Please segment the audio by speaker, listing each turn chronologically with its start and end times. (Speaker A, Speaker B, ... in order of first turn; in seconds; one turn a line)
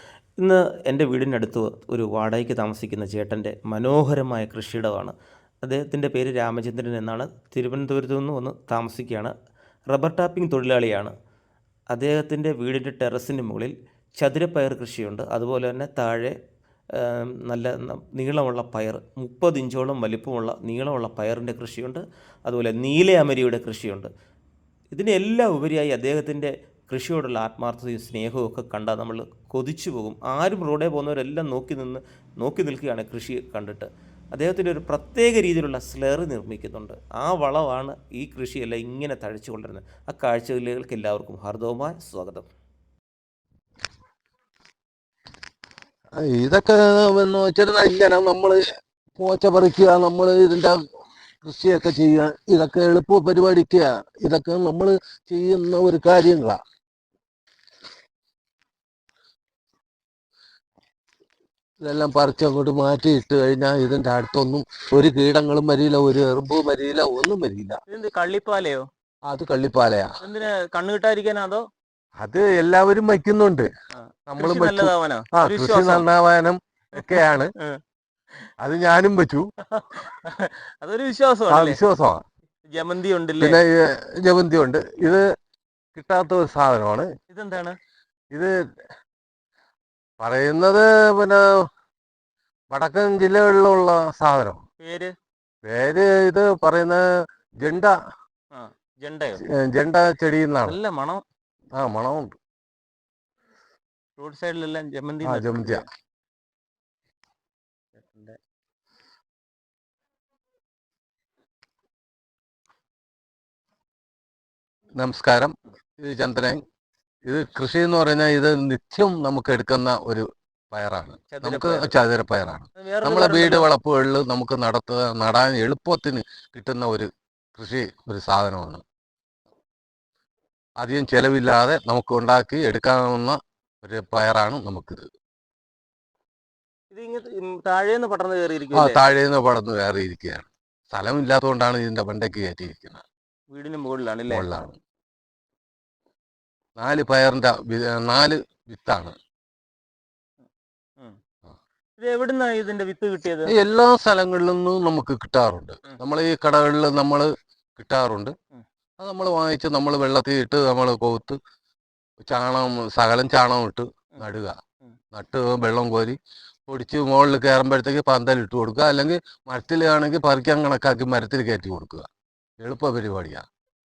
Speaker A: 0.4-9.3
Speaker A: 9.9-11.1
Speaker A: 11.9-16.4
Speaker A: 17.0-24.1
Speaker A: 24.9-42.5
Speaker B: 46.2-48.6
Speaker B: 49.2-50.8
Speaker B: 51.5-56.6
Speaker B: 61.8-67.8
Speaker C: 67.9-68.9
Speaker B: 69.3-70.2
Speaker C: 70.2-71.7
Speaker B: 72.2-73.7
Speaker C: 74.0-76.1
Speaker B: 74.3-77.5
Speaker C: 77.0-77.8
Speaker B: 78.6-79.5
Speaker C: 79.7-81.8
Speaker B: 81.5-82.2
Speaker C: 82.7-83.6
Speaker B: 83.4-85.3
Speaker B: 86.0-87.1
Speaker C: 87.3-87.8
Speaker B: 90.2-91.4
Speaker B: 92.7-94.6
Speaker C: 94.8-95.2
Speaker B: 95.7-97.0
Speaker B: 97.6-97.9
Speaker C: 98.5-99.4
Speaker B: 99.4-100.8
Speaker C: 100.7-101.2
Speaker B: 101.8-102.3
Speaker C: 104.2-105.9
Speaker B: 105.2-105.8
Speaker C: 108.0-108.4
Speaker B: 115.0-116.6
Speaker B: 117.3-128.8
Speaker C: 121.3-122.0
Speaker C: 122.8-123.7
Speaker B: 130.8-135.1
Speaker C: 136.9-139.0
Speaker B: 138.7-143.0
Speaker C: 143.5-144.5
Speaker B: 144.3-144.8
Speaker B: 146.8-149.2
Speaker C: 152.0-153.5
Speaker B: 153.5-158.3
Speaker B: 159.0-161.4
Speaker B: 162.2-164.6
Speaker B: 165.1-172.1
Speaker B: 172.6-173.4